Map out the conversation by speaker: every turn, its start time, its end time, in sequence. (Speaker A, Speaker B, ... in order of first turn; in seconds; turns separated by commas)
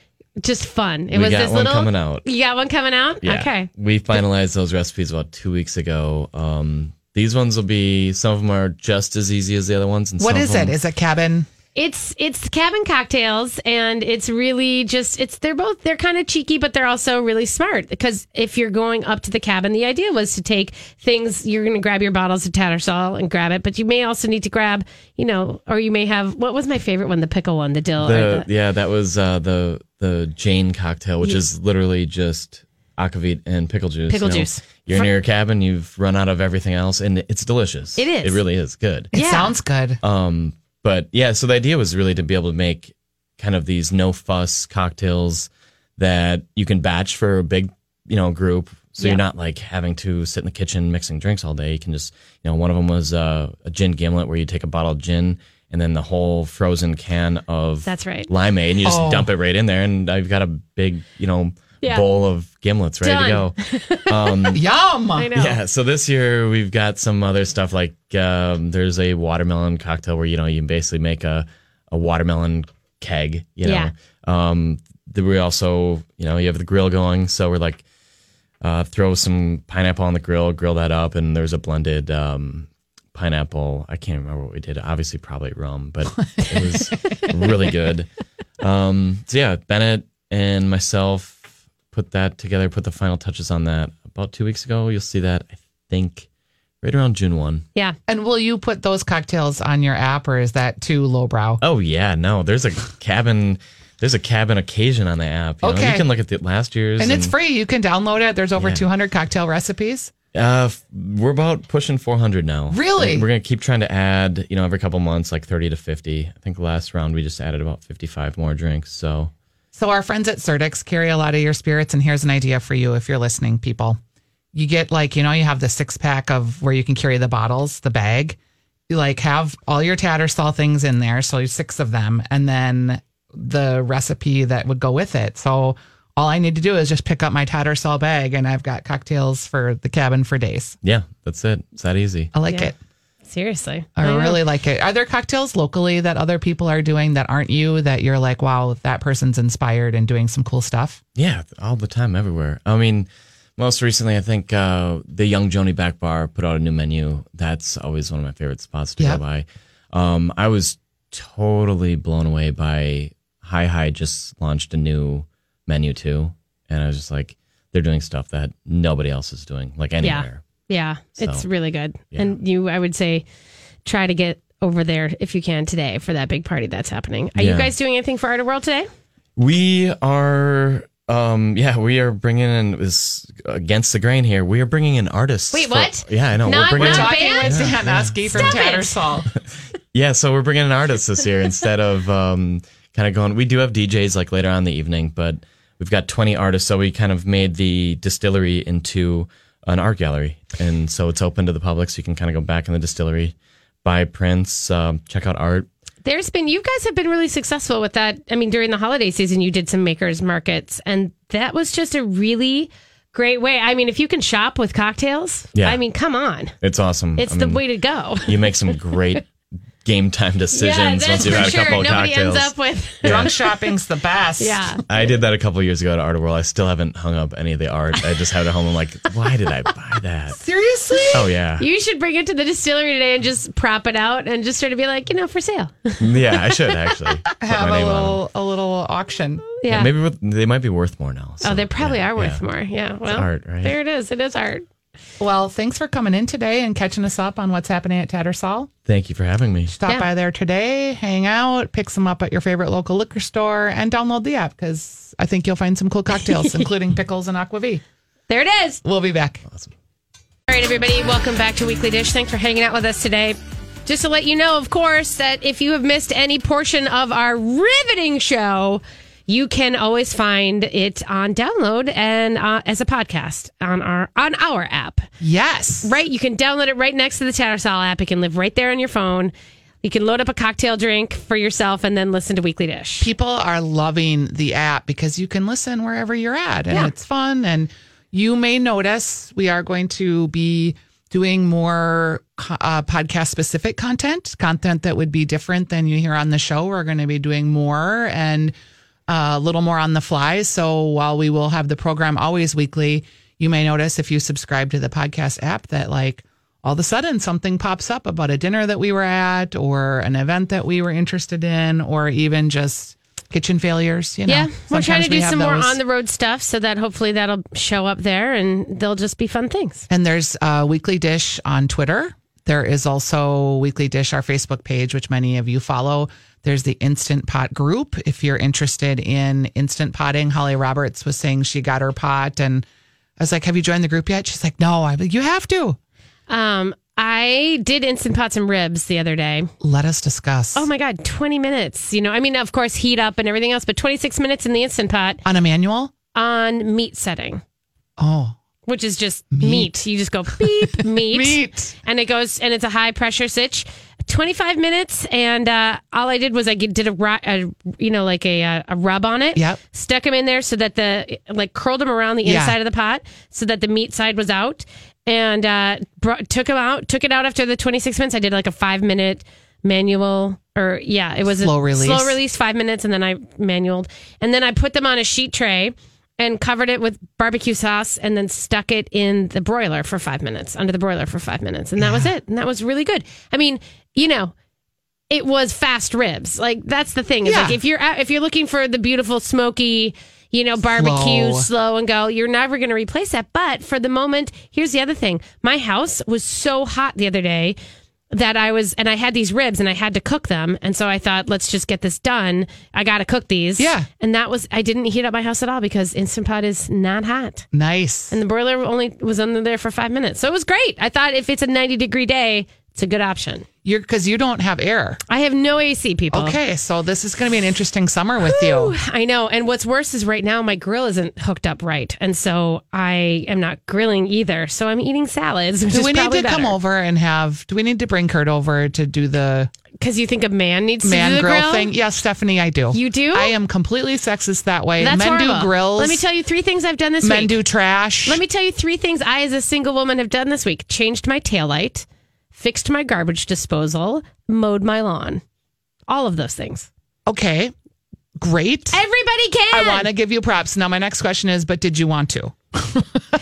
Speaker A: 0.4-3.7, Speaker B: 1.1-2.2, Speaker B: 3.2-10.7, Speaker C: 10.2-11.5, Speaker A: 11.7-28.4, Speaker B: 28.0-39.1, Speaker A: 34.1-35.1, Speaker A: 38.0-38.4, Speaker A: 39.1-39.5, Speaker C: 39.1-40.0, Speaker B: 40.0-64.6, Speaker A: 57.9-58.3, Speaker C: 58.8-59.3, Speaker A: 63.0-64.5, Speaker C: 64.5-65.3, Speaker A: 65.2-65.6, Speaker B: 65.3-77.8, Speaker A: 73.6-73.9, Speaker B: 78.6-88.1, Speaker C: 86.3-86.8, Speaker B: 88.6-96.3, Speaker B: 96.8-97.6, Speaker C: 98.1-101.6, Speaker B: 101.6-107.3, Speaker C: 105.6-106.0, Speaker C: 107.0-110.1, Speaker B: 108.6-108.8, Speaker B: 110.3-119.3, Speaker C: 112.7-113.2, Speaker C: 119.7-124.0, Speaker C: 124.5-128.4, Speaker C: 128.9-140.7, Speaker B: 140.8-142.3, Speaker C: 142.3-142.8, Speaker A: 143.2-144.4, Speaker C: 144.0-151.0, Speaker B: 151.2-170.4, Speaker A: 170.0-173.2, Speaker B: 171.2-171.4, Speaker A: 173.8-178.9, Speaker B: 177.3-177.7, Speaker B: 179.3-188.6, Speaker A: 185.5-187.7, Speaker C: 186.7-189.3, Speaker A: 188.3-189.2, Speaker B: 189.9-205.7, Speaker A: 206.0-216.5, Speaker B: 216.6-217.6, Speaker A: 217.2-218.5, Speaker B: 218.2-219.3, Speaker B: 219.8-223.3, Speaker A: 220.5-223.3, Speaker C: 223.0-224.8, Speaker A: 224.4-224.8, Speaker B: 224.9-230.4, Speaker C: 230.3-231.3, Speaker B: 231.1-231.7, Speaker A: 231.6-236.1, Speaker B: 236.0-238.2, Speaker C: 237.3-239.4, Speaker A: 239.6-239.9, Speaker B: 239.7-242.4, Speaker A: 241.4-244.6, Speaker B: 243.1-243.7, Speaker C: 245.2-248.7, Speaker B: 248.8-249.7, Speaker C: 249.7-257.8, Speaker A: 258.3-258.8, Speaker C: 258.8-259.4, Speaker A: 260.5-275.1, Speaker C: 275.2-275.9, Speaker A: 275.8-279.3, Speaker A: 279.8-283.1, Speaker C: 283.0-298.5, Speaker C: 299.1-315.8, Speaker A: 314.2-319.9, Speaker C: 319.9-332.6, Speaker C: 333.2-335.8, Speaker A: 336.3-339.5, Speaker C: 339.6-340.7, Speaker A: 340.5-345.2, Speaker C: 345.2-345.9, Speaker A: 346.1-347.4, Speaker C: 348.0-348.4, Speaker A: 348.6-384.3, Speaker C: 349.3-349.7, Speaker C: 350.6-351.7, Speaker C: 359.3-359.6, Speaker C: 362.2-362.6, Speaker C: 371.3-372.2, Speaker C: 381.8-382.1, Speaker A: 385.1-397.6, Speaker C: 387.2-387.6, Speaker C: 390.7-391.5, Speaker A: 398.1-407.4, Speaker C: 403.6-403.9, Speaker C: 407.5-408.1, Speaker A: 408.1-413.4, Speaker C: 413.6-415.0, Speaker A: 415.1-416.4, Speaker C: 416.1-418.8, Speaker A: 418.2-426.6, Speaker C: 425.7-429.5, Speaker A: 429.8-431.7, Speaker C: 430.8-436.0, Speaker A: 432.7-433.3, Speaker A: 434.8-437.4, Speaker C: 437.0-438.2, Speaker A: 438.0-445.2, Speaker A: 445.9-446.7, Speaker C: 447.1-447.5, Speaker C: 448.2-448.8, Speaker A: 448.7-449.9, Speaker C: 449.5-453.0